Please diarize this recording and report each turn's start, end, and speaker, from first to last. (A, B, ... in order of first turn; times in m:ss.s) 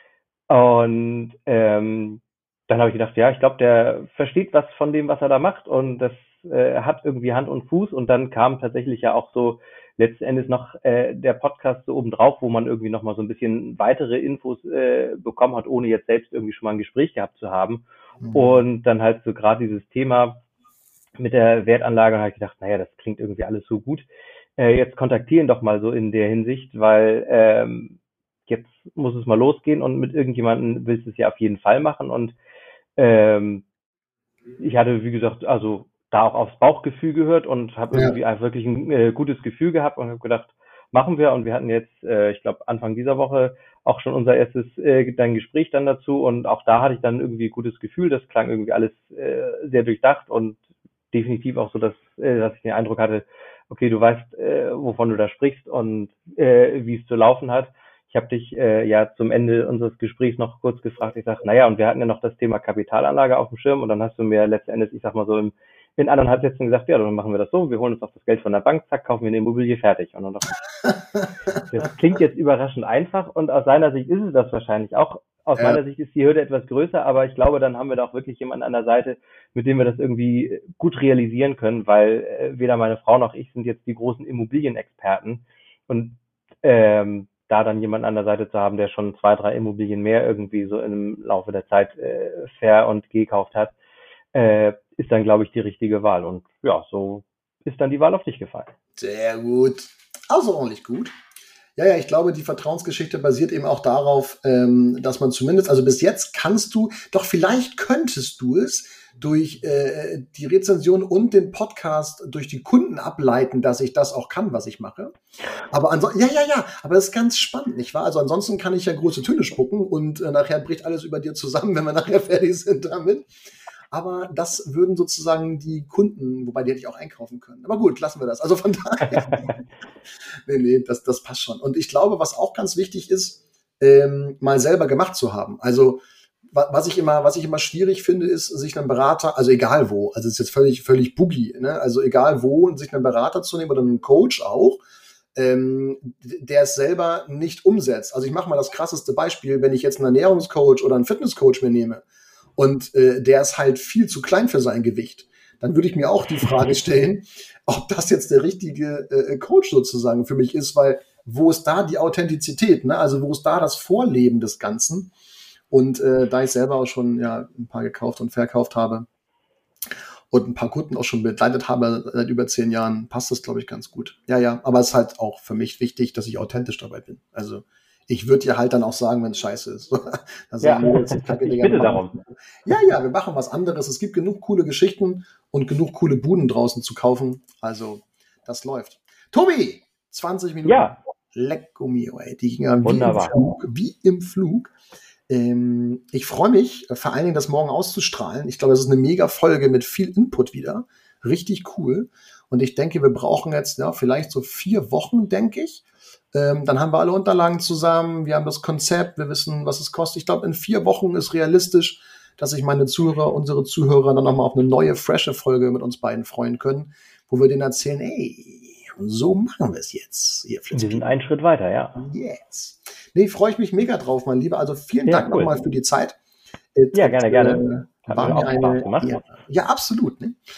0:00.5-0:20.4 A
0:18.2-0:18.6 B
0:21.2-0:24.0 A
0:24.6-0:32.3 A
0:33.0-0:33.6 A
0:34.6-0:50.6 A
0:37.9-0:38.2 B
0:51.1-1:10.6 A
1:11.6-1:33.7 A
1:34.3-1:38.7 A
1:39.0-1:41.1 B
1:41.8-1:55.1 B
1:55.7-2:03.3 B
2:03.9-2:09.6 B
2:10.3-2:24.8 B
2:25.3-2:32.0 B
2:32.6-2:45.1 B
2:45.7-2:49.1 B
2:50.3-3:14.7 B
3:00.6-3:02.2 A
3:10.6-3:11.0 A
3:12.8-3:13.4 A
3:15.3-3:41.1 B
3:40.7-3:42.0 A
3:42.0-3:46.2 B
3:45.0-3:45.6 A
3:46.7-3:50.4 B
3:46.9-3:49.2 A